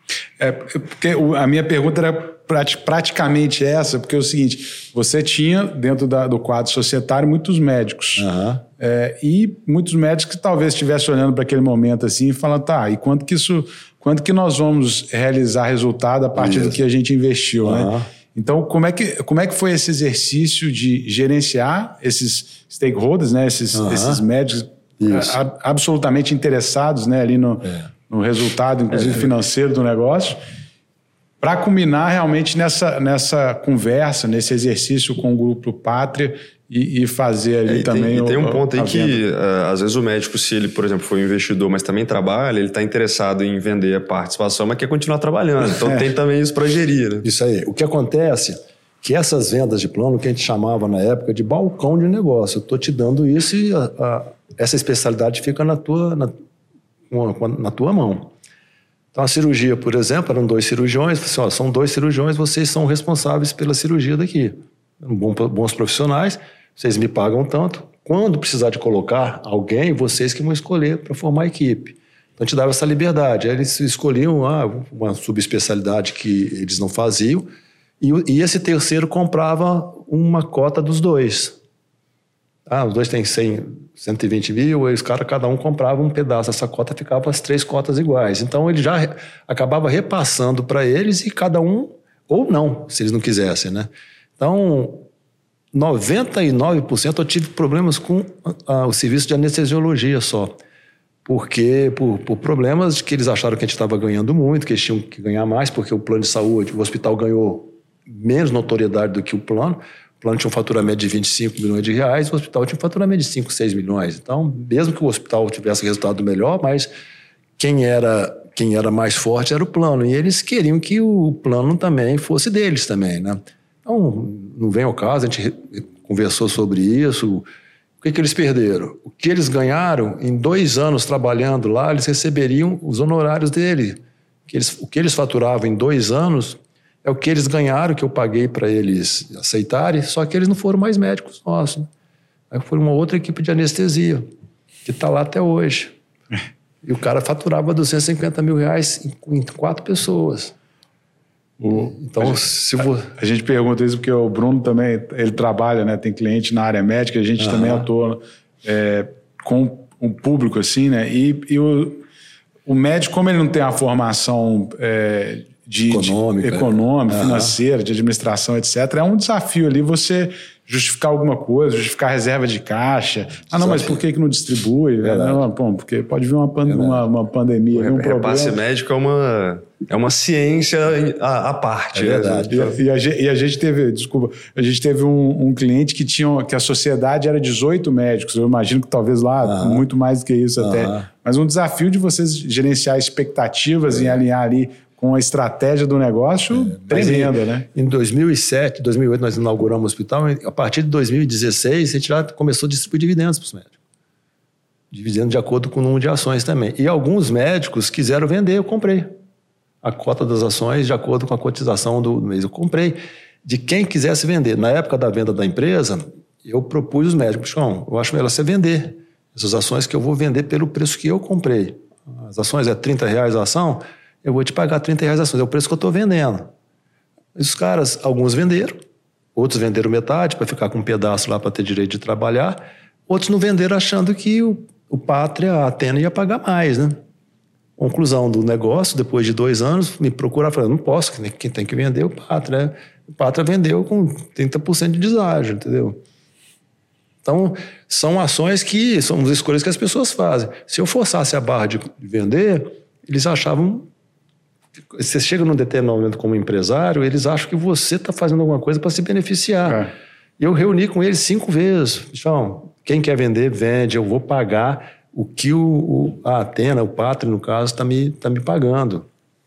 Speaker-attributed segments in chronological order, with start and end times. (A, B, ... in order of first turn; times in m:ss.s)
0:00.4-0:08.3 A
0:08.2-0:08.6 B
0:08.8-0:30.4 A
0:16.3-0:16.8 B
0:17.6-0:18.1 B
0:23.7-0:24.2 B
0:25.0-0:25.4 B
0:31.4-0:39.2 A
0:37.7-0:47.2 C
0:47.2-0:56.3 B
0:57.1-0:58.3 B
0:59.1-1:17.4 B
1:18.0-1:21.6 B
1:22.7-1:35.1 B
1:35.7-1:40.6 B
1:41.2-1:56.9 B
1:57.6-2:07.4 B
2:08.0-2:21.9 B
2:22.5-2:24.3 B
2:24.8-2:25.9 B
2:26.8-2:30.5 B
2:31.6-2:32.4 A
2:31.7-2:33.1 B
2:33.1-2:42.0 A
2:37.4-2:37.8 B
2:42.6-2:58.6 A
2:45.9-2:47.5 B
2:53.5-2:54.0 B
2:55.0-2:55.4 B
2:56.6-2:57.0 B
2:57.7-3:02.8 C
3:01.9-3:02.7 B
3:02.5-3:17.7 A
3:09.4-3:09.8 B
3:10.6-3:11.1 B
3:16.5-3:23.7 B
3:24.9-3:29.1 B
3:29.8-3:46.5 B
3:47.3-3:48.8 B
3:49.3-3:57.0 B
3:57.8-4:06.0 B
4:07.2-4:13.9 B
4:14.9-4:29.1 B